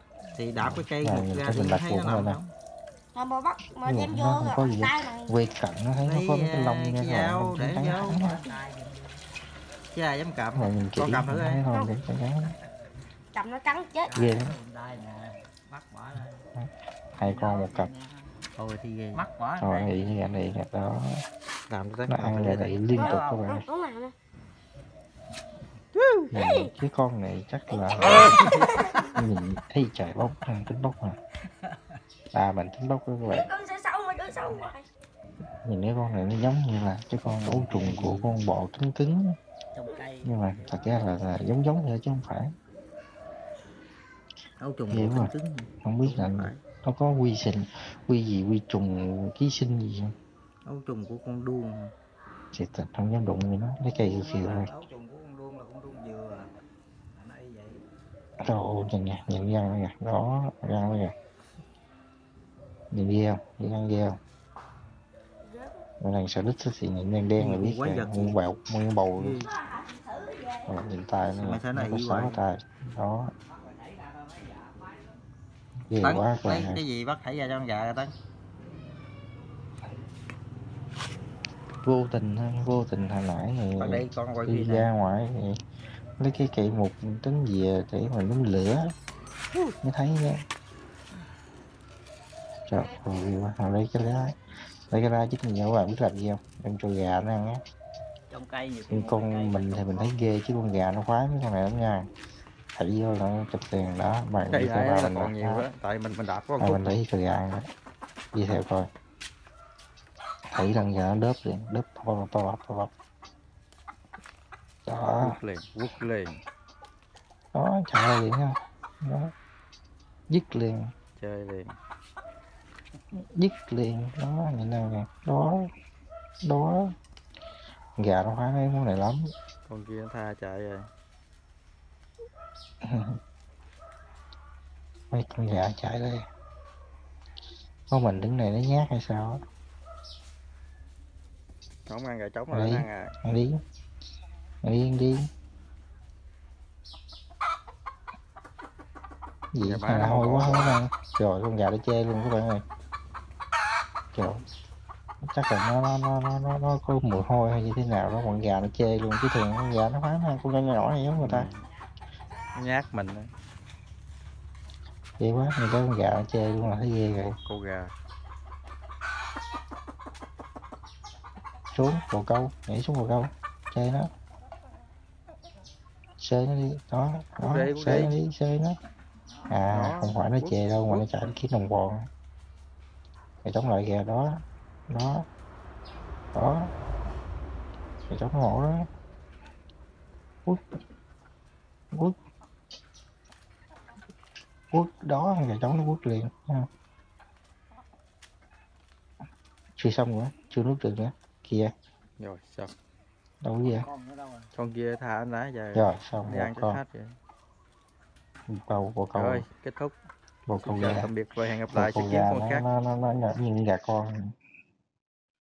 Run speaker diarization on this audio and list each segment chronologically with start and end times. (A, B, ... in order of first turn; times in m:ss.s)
0:00.3-0:02.5 A
0:00.6-0:02.4 B
0:03.1-0:05.3 C
0:03.8-0:08.4 B
0:06.0-0:08.2 A
0:08.0-0:09.2 D
0:09.9-0:11.6 A
0:10.5-0:12.5 B
0:13.3-0:14.2 C
0:14.1-0:16.4 D
0:14.1-0:14.6 B
0:16.6-0:17.9 B
0:17.2-0:18.3 D
0:18.6-0:19.2 A
0:19.1-0:20.1 D
0:19.6-0:21.2 B
0:21.7-0:22.9 A
0:22.1-0:23.6 B
0:22.9-0:23.2 D
0:22.9-0:24.1 C
0:26.3-0:28.4 B
0:26.4-0:26.7 C
0:27.7-0:29.1 C
0:28.1-0:28.6 A
0:29.1-0:31.2 B
0:32.3-0:33.5 B
0:33.2-0:34.9 C
0:35.6-0:39.4 B
0:37.2-0:38.4 A
0:39.7-0:41.4 D
0:40.2-0:42.5 B
0:44.6-0:46.6 A
0:44.9-0:45.3 B
0:45.8-0:50.1 B
0:50.6-0:51.9 A
0:52.5-0:54.7 B
0:53.9-0:56.5 D
0:57.1-0:57.8 D
0:58.4-1:01.1 B
1:02.9-1:04.2 B
1:05.4-1:05.8 C
1:06.0-1:09.5 B
1:07.4-1:08.4 A
1:09.2-1:09.5 A
1:10.1-1:10.6 C
1:10.7-1:13.3 B
1:11.4-1:12.4 A
1:13.5-1:15.1 D
1:15.9-1:16.8 B
1:16.0-1:18.1 A
1:21.8-1:25.6 B
1:23.8-1:24.9 A
1:26.2-1:28.9 B
1:29.8-1:30.4 B
1:32.7-1:34.3 B
1:34.9-1:37.6 B
1:38.3-1:40.2 D
1:38.9-1:42.1 B
1:42.8-1:45.7 B
1:44.5-1:47.0 A
1:46.6-1:47.6 B
1:48.3-1:48.9 B
1:50.5-1:52.9 B
1:54.9-1:55.4 B
1:55.2-1:56.4 A
1:57.5-1:59.3 B
2:00.3-2:00.9 B
2:01.2-2:01.8 A
2:03.3-2:05.7 B
2:06.4-2:06.9 B
2:08.0-2:09.3 B
2:09.7-2:10.9 A
2:12.8-2:13.2 B
2:15.1-2:16.2 B
2:17.9-2:19.4 B
2:21.9-2:23.1 A
2:22.5-2:23.6 B
2:24.6-2:25.3 B
2:29.5-2:32.6 B
2:29.6-2:30.8 A
2:34.1-2:34.4 B
2:35.2-2:41.5 B
2:41.1-2:41.7 A
2:42.6-2:43.3 A
2:45.2-2:47.4 B
2:47.4-2:47.9 A
2:51.7-2:54.1 B
2:56.2-2:58.8 B
2:57.4-2:58.2 A
2:59.5-3:02.1 B
2:59.7-3:01.1 A
3:03.4-3:05.2 B
3:06.3-3:06.7 B
3:08.1-3:08.9 B
3:14.7-3:16.7 B
3:19.8-3:21.7 B
3:22.2-3:22.7 A
3:23.4-3:23.9 B
3:23.8-3:24.5 D
3:24.5-3:27.1 A
3:25.7-3:26.8 B
3:28.5-3:29.4 B
3:29.1-3:30.0 A
3:30.5-3:31.1 B
3:30.6-3:32.6 A
3:31.7-3:34.3 B